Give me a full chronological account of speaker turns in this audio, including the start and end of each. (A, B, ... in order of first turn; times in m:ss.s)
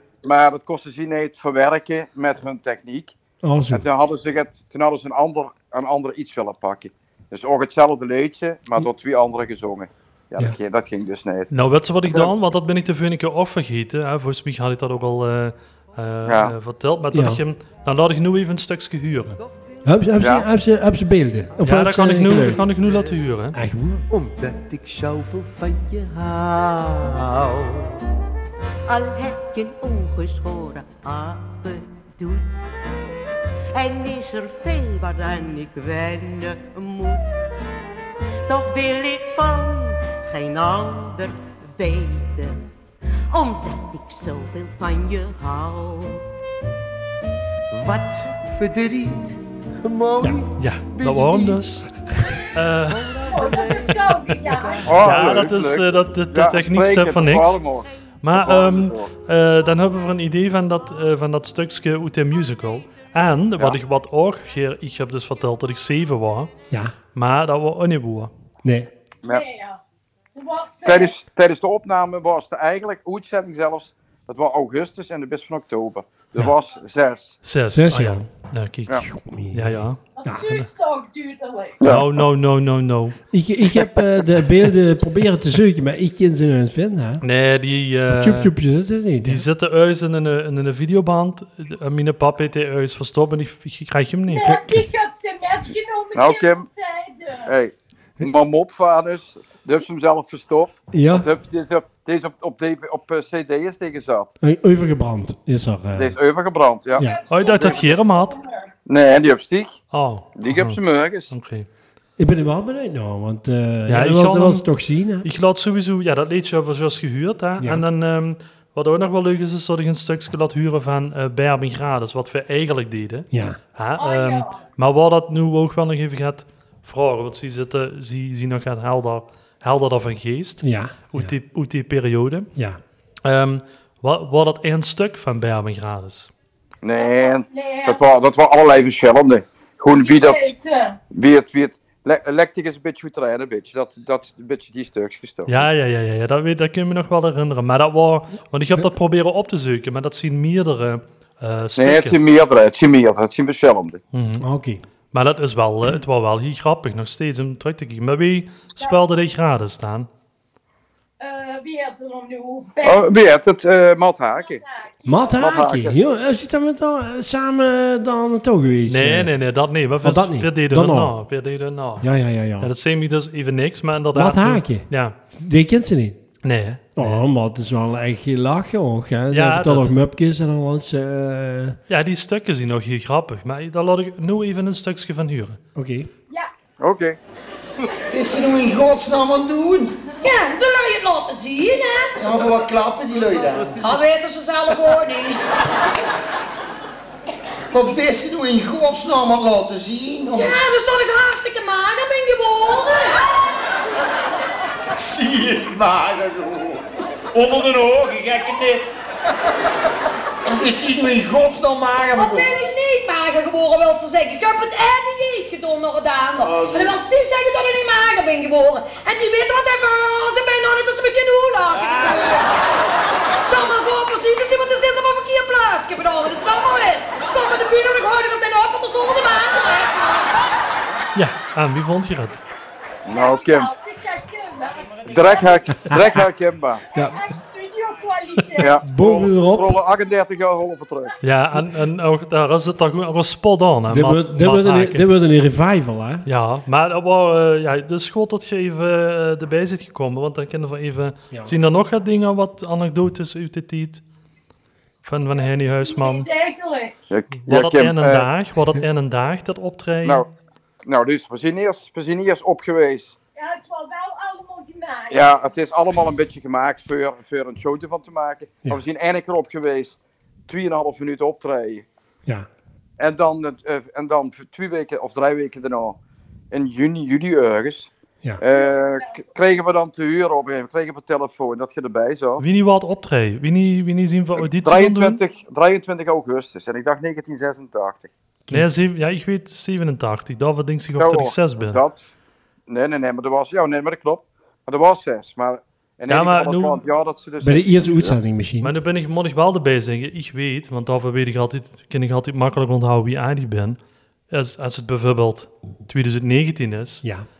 0:00.2-0:03.2 A
0:03.4-0:03.8 B
0:03.7-0:11.5 A
0:11.5-0:19.4 C
0:16.3-0:16.5 A
0:17.1-0:17.4 B
0:19.4-0:19.9 D
0:19.8-0:22.7 B
0:20.2-0:20.5 A
0:21.6-0:23.6 C
0:22.3-0:23.2 D
0:23.5-0:24.0 B
0:24.1-0:28.0 D
0:28.9-0:32.7 D
0:33.7-0:37.4 D
0:38.5-0:42.6 D
0:43.3-0:46.2 D
0:47.7-0:51.7 D
0:50.6-0:51.9 C
0:52.5-0:53.1 C
0:52.8-0:55.3 D
0:53.3-0:54.9 E
0:54.8-0:59.1 A
0:54.9-0:57.6 C
0:58.2-1:06.5 C
1:07.1-1:08.3 C
1:08.6-1:08.9 B
1:09.3-1:09.8 E
1:10.4-1:11.2 E
1:10.8-1:17.4 A
1:17.4-1:20.7 C
1:17.7-1:18.2 B
1:19.0-1:20.5 B
1:20.2-1:21.8 E
1:21.8-1:22.1 A
1:21.8-1:23.2 C
1:23.3-1:27.2 B
1:27.2-1:28.5 C
1:28.1-1:29.5 B
1:29.2-1:34.6 C
1:34.3-1:37.5 E
1:34.4-1:34.8 B
1:36.2-1:36.7 A
1:37.5-1:44.3 A
1:40.9-1:41.3 B
1:44.4-1:46.2 B
1:46.0-1:47.0 A
1:47.0-1:48.7 E
1:47.3-1:48.4 C
1:48.9-1:49.8 A
1:49.9-1:51.7 C
1:50.4-1:51.3 A
1:52.2-1:55.3 B
1:53.9-1:54.7 C
1:55.2-2:12.5 C
1:57.6-1:57.8 B
2:03.3-2:03.6 B
2:04.0-2:04.6 E
2:10.6-2:11.3 B
2:12.6-2:12.8 B
2:13.2-2:16.3 C
2:16.8-2:20.5 A
2:17.0-2:18.0 E
2:19.9-2:21.0 E
2:21.1-2:25.7 A
2:25.5-2:32.2 C
2:31.8-2:34.0 A
2:34.1-2:34.4 C
2:34.4-2:34.8 B
2:35.1-2:40.1 C
2:41.2-2:43.1 E
2:42.8-2:44.6 A
2:44.4-2:45.3 E
2:45.1-2:49.3 B
2:45.4-2:46.0 A
2:48.9-2:52.1 C
2:50.0-2:51.2 B
2:52.0-2:52.7 B
2:52.6-2:55.2 C
2:54.1-2:56.2 B
2:56.4-2:57.2 C
2:57.0-3:01.8 B
2:59.3-2:59.9 C
3:01.9-3:05.6 C
3:05.8-3:06.1 B
3:06.8-3:07.2 A
3:08.1-3:10.0 F
3:10.2-3:12.1 G
3:12.2-3:13.9 F
3:13.8-3:15.6 G
3:17.7-3:20.6 F
3:20.3-3:23.2 G
3:24.9-3:28.9 F
3:30.5-3:32.5 F
3:32.1-3:42.5 G
3:36.4-3:37.0 F
3:41.8-3:42.4 F
3:43.4-3:50.4 G
3:51.2-3:52.4 C
3:53.1-3:53.7 A
3:53.1-3:55.9 E
3:55.1-3:56.8 A
3:56.9-3:58.8 E
3:56.9-3:57.2 B
3:58.6-4:01.2 A
3:58.8-3:59.8 B
4:01.2-4:05.1 C
4:03.9-4:06.3 B
4:06.3-4:14.0 C
4:15.0-4:16.3 C
4:15.8-4:17.0 E
4:17.1-4:18.3 A
4:17.5-4:20.2 C
4:20.9-4:23.2 A
4:23.4-4:25.3 E
4:25.1-4:31.9 A
4:33.0-4:36.0 A
4:36.5-4:42.4 A
4:38.5-4:39.2 E
4:42.4-4:45.2 C
4:44.4-4:48.1 A
4:48.5-4:51.8 C
4:51.0-4:52.2 A
4:52.7-4:58.2 A
4:56.1-4:56.8 C
4:57.4-4:58.7 B
4:58.6-5:03.8 C
5:04.3-5:07.0 C